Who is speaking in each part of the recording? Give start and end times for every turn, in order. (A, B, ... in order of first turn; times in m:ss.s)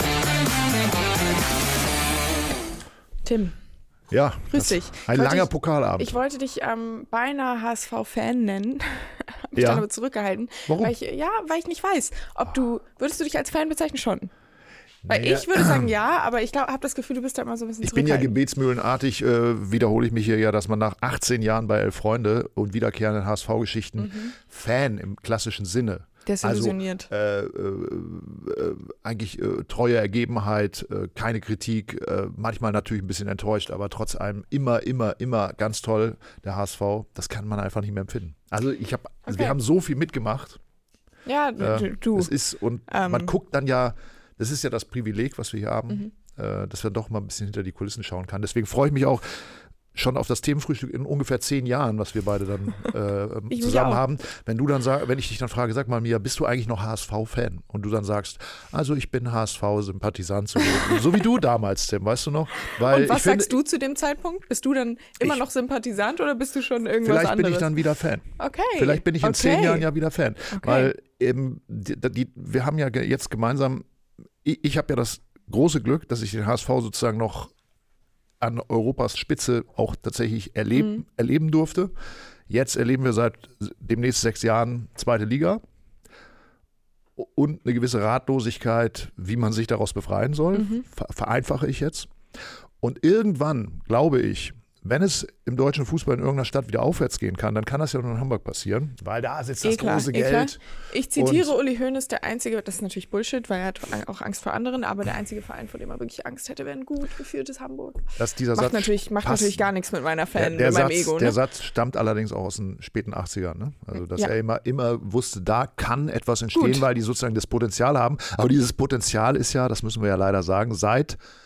0:03.2-0:03.6 A
0:04.1-0:06.2 B
0:04.5-0:14.3 A
0:09.6-0:09.8 B
0:10.7-0:10.9 B
0:15.0-0:15.9 B
0:15.1-0:18.3 A
0:17.8-0:40.6 B
0:24.0-0:24.3 A
0:26.2-0:27.1 A
0:39.3-0:39.5 A
0:41.2-0:42.3 A
0:41.6-1:03.6 B
0:42.9-0:43.3 A
0:53.5-0:54.0 A
1:02.7-1:07.7 A
1:07.0-1:13.8 B
1:08.4-1:09.9 A
1:10.5-1:10.9 A
1:14.4-1:17.5 B
1:18.4-1:21.9 B
1:20.7-1:21.0 A
1:22.5-1:25.6 B
1:27.2-1:32.1 B
1:30.5-1:30.8 A
1:32.8-1:40.6 B
1:39.6-1:51.4 A
1:41.1-1:41.5 B
1:48.2-1:49.6 B
1:50.3-2:01.2 B
1:56.5-1:56.8 A